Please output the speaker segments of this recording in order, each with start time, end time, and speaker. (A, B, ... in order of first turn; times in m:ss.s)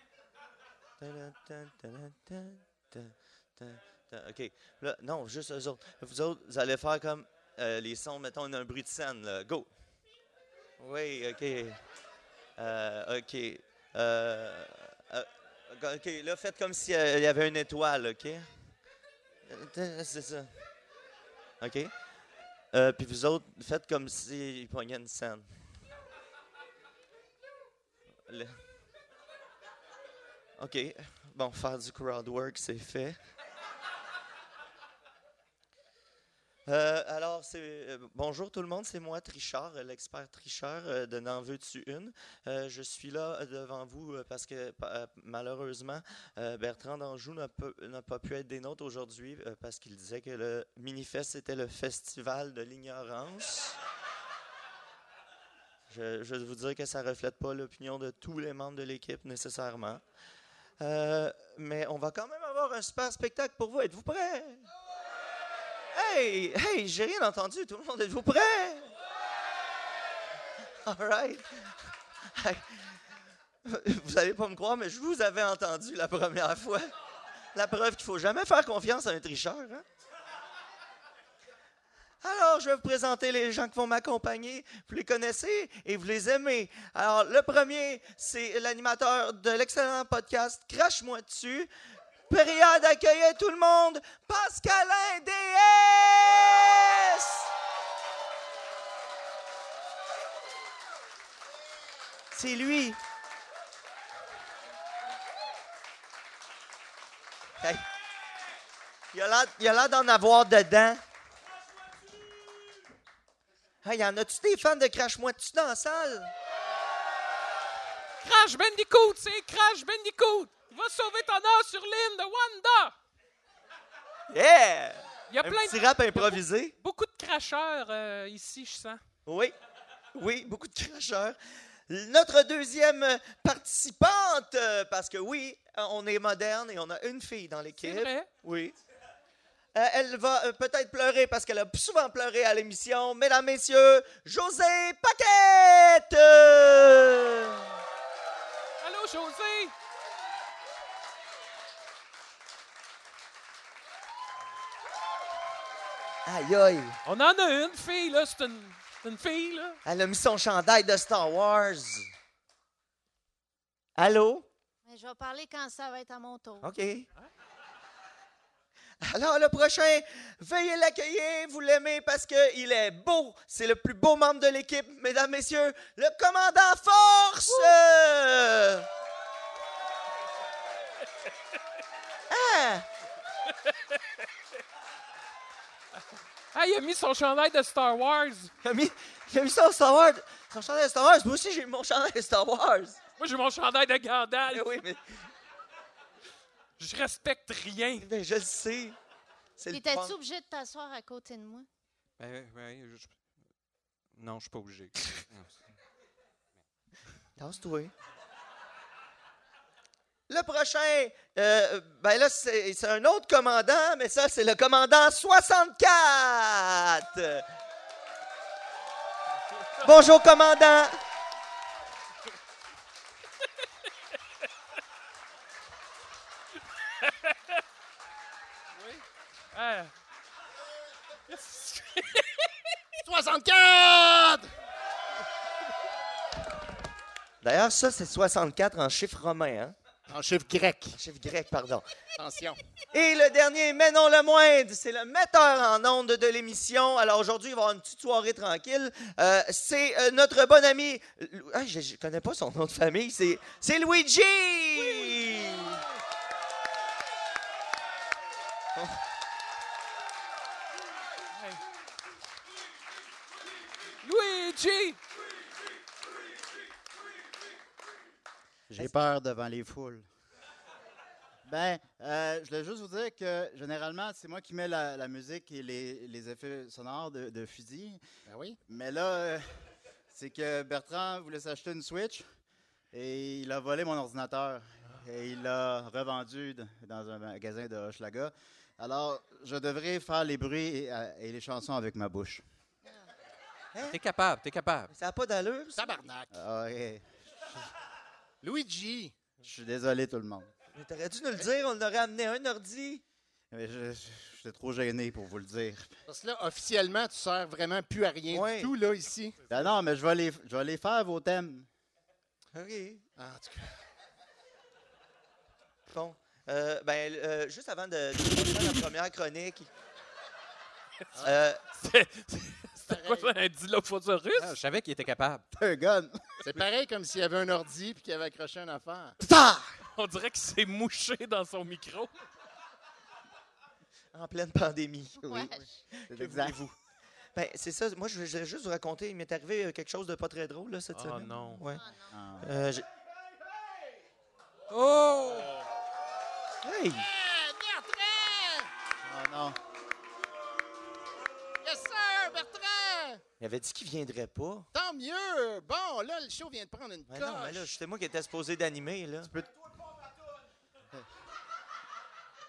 0:01.0-0:09.7 A
0:10.8-0:11.8 A
0:12.6-0:18.5 A
0:19.5-0:20.5 A
0:21.6-0:21.9 A
0:22.7-0:25.6 A
0:28.3-0:28.6 A
0:30.6-0:33.2 A
0:36.7-0:53.8 A
0:55.9-1:00.0 A
1:00.8-1:04.7 A
1:05.9-1:08.9 A
1:10.8-1:11.8 A
1:12.3-1:13.0 A
1:13.6-1:16.9 A
1:17.5-1:19.8 A
1:22.2-1:31.7 A
1:32.3-1:37.5 A
1:42.3-1:43.0 A
1:49.1-1:51.0 A
1:53.8-1:56.3 A
1:58.2-2:03.0 B
2:04.3-2:06.7 A
2:05.3-2:09.0 B
2:09.3-2:09.6 A
2:10.1-2:11.4 A
2:11.9-2:18.8 A
2:17.8-2:18.3 B
2:19.7-2:27.7 A
2:28.8-2:29.7 B
2:36.3-2:37.0 A
2:37.0-2:39.8 B
2:39.8-2:42.1 A
2:44.0-2:44.5 A
2:44.9-2:46.7 C
2:46.6-2:47.1 A
2:49.0-2:58.9 A
3:02.3-3:02.9 A
3:06.5-3:08.5 B
3:08.6-3:13.0 A
3:13.2-3:14.7 B
3:14.5-3:15.3 A
3:16.8-3:18.1 B
3:18.0-3:19.0 A
3:19.6-3:20.2 A
3:19.7-3:21.7 C
3:22.2-3:23.1 D
3:24.1-3:25.5 D
3:27.4-3:27.9 A
3:30.3-3:37.4 A
3:39.8-3:41.0 A
3:47.0-3:47.3 B
3:49.5-3:49.9 B
3:51.3-3:52.3 B
3:53.0-3:54.5 E
3:57.4-3:59.8 A
4:00.1-4:01.0 E
4:00.9-4:01.9 A
4:02.2-4:02.6 E
4:02.9-4:15.8 A
4:21.4-4:21.6 B
4:24.0-4:25.0 B
4:28.7-4:30.1 F
4:31.4-4:38.0 F
4:38.3-4:38.6 E
4:38.7-4:39.5 F
4:40.1-4:42.3 F
4:42.9-4:52.4 F
4:53.7-4:54.0 A
4:53.9-4:54.9 D
4:54.9-4:55.8 A
4:55.8-4:56.4 E
4:56.3-4:57.1 F
4:58.4-4:59.1 E
4:59.4-5:00.5 F
5:00.7-5:03.0 A
5:03.5-5:05.9 F
5:06.1-5:09.4 E
5:08.3-5:08.7 A
5:09.5-5:11.7 F
5:12.5-5:13.0 A
5:13.2-5:13.7 E
5:15.9-5:19.7 A
5:21.2-5:21.6 A
5:21.7-5:24.6 B
5:22.9-5:23.3 E
5:24.4-5:25.4 D
5:25.5-5:26.2 F
5:26.4-5:29.2 E
5:29.2-5:29.7 F
5:30.0-5:32.1 B
5:34.1-5:35.4 A
5:35.2-5:35.7 C
5:36.0-5:36.8 A
5:36.1-5:36.6 F
5:37.4-5:41.8 A
5:40.9-5:41.6 B
5:41.6-5:42.1 C
5:42.1-5:42.5 F
5:42.4-5:42.9 A
5:44.7-5:45.5 D
5:46.6-5:47.1 A
5:47.1-5:48.7 E
5:49.0-5:49.6 F
5:51.6-5:53.2 E
5:53.4-5:54.7 A
5:54.7-5:57.7 E
5:57.1-5:59.3 A